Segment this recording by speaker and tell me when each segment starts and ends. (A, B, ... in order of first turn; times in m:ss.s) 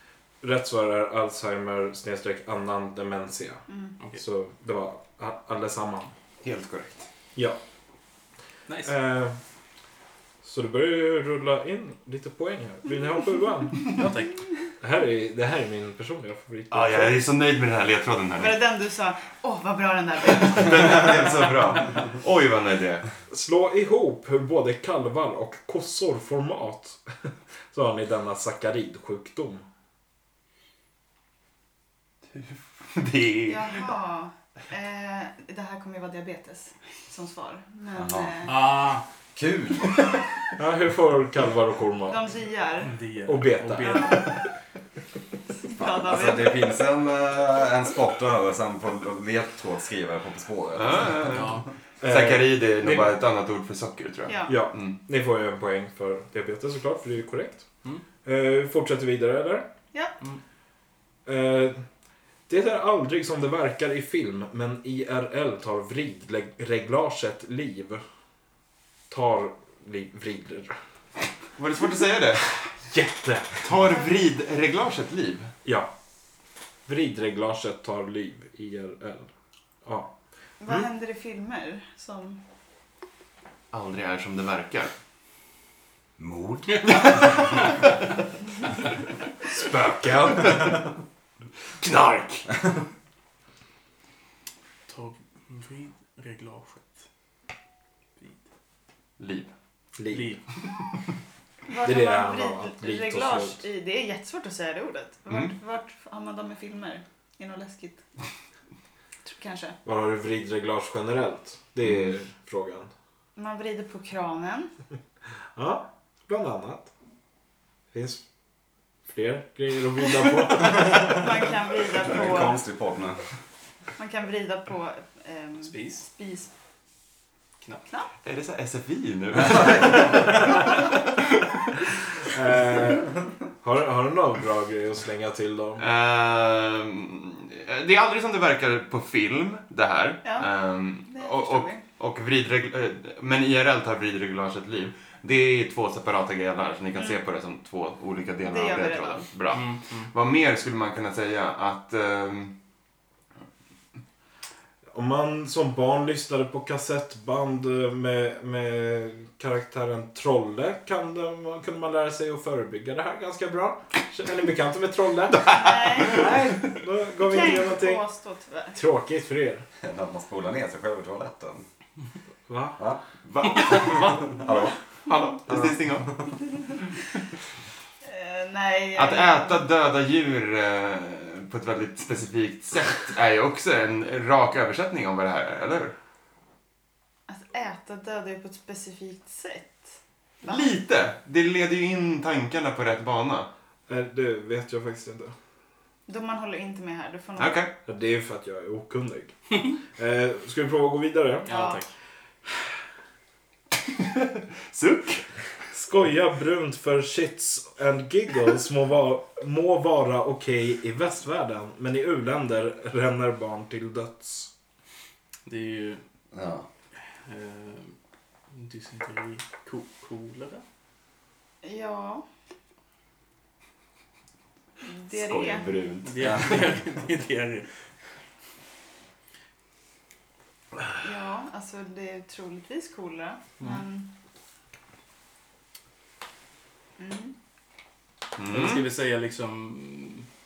0:00.4-0:06.1 A
0:03.7-0:04.0 B
0:06.4-0:07.1 C
0:08.7-0:08.9 D
0:08.8-0:09.4 A
0:10.4-0:13.9 A
0:13.9-0:14.4 D
0:14.8-0:17.2 A
0:16.7-0:18.6 C
0:18.4-0:21.5 B
0:20.4-0:23.1 C
0:23.3-0:27.0 A
0:27.7-0:29.6 A
0:32.4-0:33.8 C
0:33.5-0:38.7 B
0:37.9-0:38.5 E
0:38.4-0:39.0 D
0:39.3-0:40.0 E
0:40.6-0:42.2 A
0:42.1-0:43.0 B
0:42.8-0:44.3 D
0:43.2-0:44.4 A
0:43.9-0:44.2 B
0:45.7-0:46.7 B
0:45.8-0:51.4 E
0:50.8-0:54.9 C
0:51.3-0:51.7 D
0:52.0-0:53.1 A
0:54.3-0:54.6 B
0:54.5-0:57.7 A
0:58.2-0:59.7 A
1:01.2-1:01.8 A
1:02.5-1:08.0 A
1:09.1-1:10.8 A
1:11.6-1:12.4 C
1:12.8-1:13.6 A
1:13.6-1:15.5 C
1:15.6-1:15.9 A
1:16.8-1:19.3 A
1:19.8-1:20.1 A
1:20.6-1:22.4 B
1:23.7-1:24.9 C
1:26.2-1:26.9 E
1:29.5-1:30.8 A
1:31.8-1:32.4 A
1:34.9-1:37.0 D
1:39.2-1:39.5 C
1:40.0-1:40.4 A
1:40.1-1:40.4 D
1:41.7-1:48.0 B
1:41.8-1:43.6 A
1:45.3-1:45.5 C
1:49.2-1:49.8 B
1:49.8-1:52.9 A
1:53.4-1:54.7 B
1:55.6-1:56.9 A
1:57.9-1:58.2 A
1:59.1-2:01.2 A
2:00.6-2:02.6 B
2:02.0-2:03.2 E
2:04.0-2:06.5 B
2:05.6-2:06.1 D
2:08.2-2:10.9 C
2:12.3-2:15.8 A
2:15.8-2:32.5 C
2:21.0-2:21.8 B
2:28.4-2:29.3 B
2:29.5-2:30.1 D
2:34.9-2:48.0 A
2:45.5-2:46.4 B
2:47.2-2:48.8 B
2:48.7-2:49.6 A
2:49.8-2:51.6 E
2:52.5-2:52.8 A
2:52.8-2:54.7 E
2:53.3-2:54.5 C
2:55.0-2:56.2 C
2:55.5-2:56.1 E
2:58.0-2:59.6 B
2:58.9-3:05.9 C
3:07.3-3:09.9 B
3:10.4-3:10.7 B
3:10.4-3:13.5 C
3:13.9-3:15.3 A
3:16.1-3:17.6 B
3:17.4-3:17.7 C
3:17.8-3:21.5 A
3:21.4-3:21.9 D
3:21.5-3:21.8 B
3:23.9-3:25.2 C
3:25.7-3:34.5 A
3:35.4-3:36.0 D
3:36.3-3:36.6 E
3:37.2-3:37.9 D
3:38.5-3:40.6 D
3:41.6-3:42.2 B
3:44.8-3:45.7 B
3:45.1-3:46.4 C
3:46.0-3:47.7 D
3:46.2-3:46.6 E
3:51.0-3:54.1 B
3:57.0-3:57.3 B
3:58.4-3:58.8 C
3:58.5-4:00.3 D